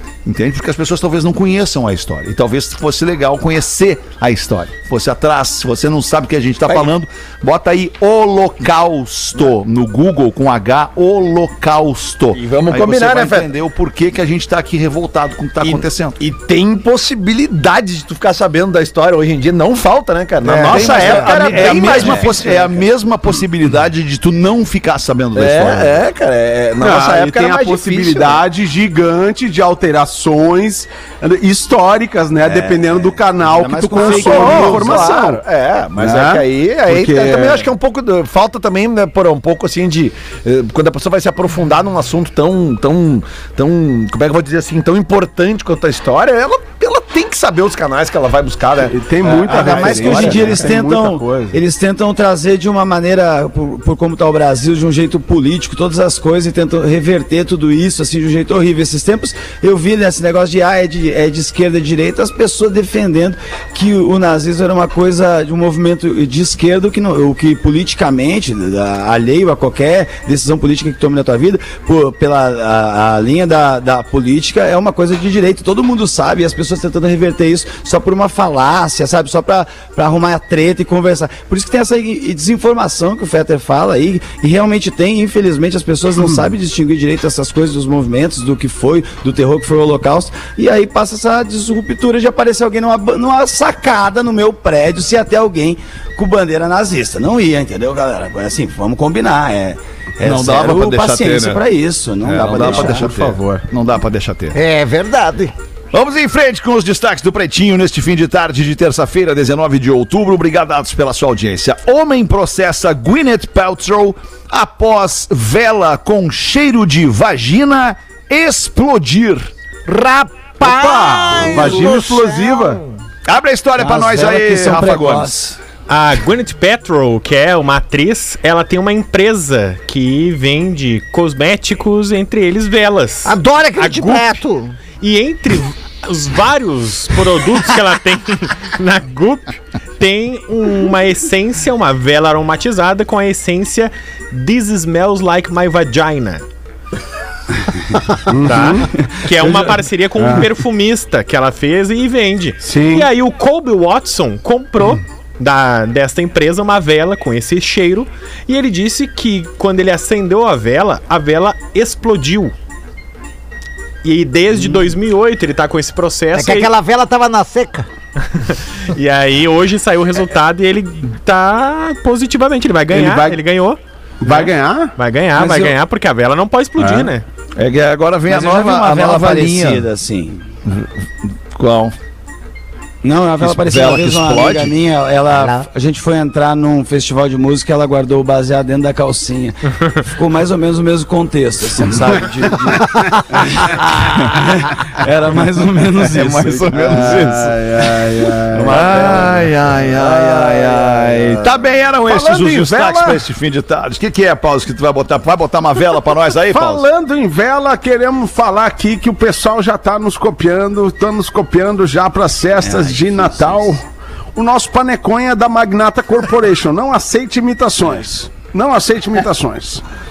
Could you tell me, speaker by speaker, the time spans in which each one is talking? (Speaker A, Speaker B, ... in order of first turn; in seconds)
Speaker A: 0.2-16.2, 20.6-26.0, 49.5-49.9, 100.2-101.6, 102.2-104.6, 105.9-119.5, 123.2-125.4, 177.6-179.9, 180.6-181.9, 183.4-184.7, 196.1-206.8
Speaker B: 12.3-13.5, 15.6-22.8, 25.4-28.4, 32.5-32.8, 34.0-50.6, 102.4-103.6, 198.7-201.5
Speaker C: 20.4-22.1, 26.8-35.4, 36.0-37.7, 48.9-51.6, 120.6-122.8, 148.3-148.9, 150.2-150.5, 152.6-153.1, 172.9-173.4, 174.2-175.8, 176.8-177.1, 196.7-199.0, 202.1-203.2, 206.5-213.8, 214.3-219.8
Speaker D: 33.4-35.0, 49.5-103.0, 123.8-125.6, 149.4-149.8, 178.3-180.4, 183.0-197.3, 212.6-213.6
Speaker E: 104.5-105.5, 119.9-123.0, 133.2-134.8, 166.3-167.9, 185.3-185.7
Speaker F: 125.9-134.4, 135.0-146.4, 148.4-162.5, 164.0-166.7, 168.3-177.2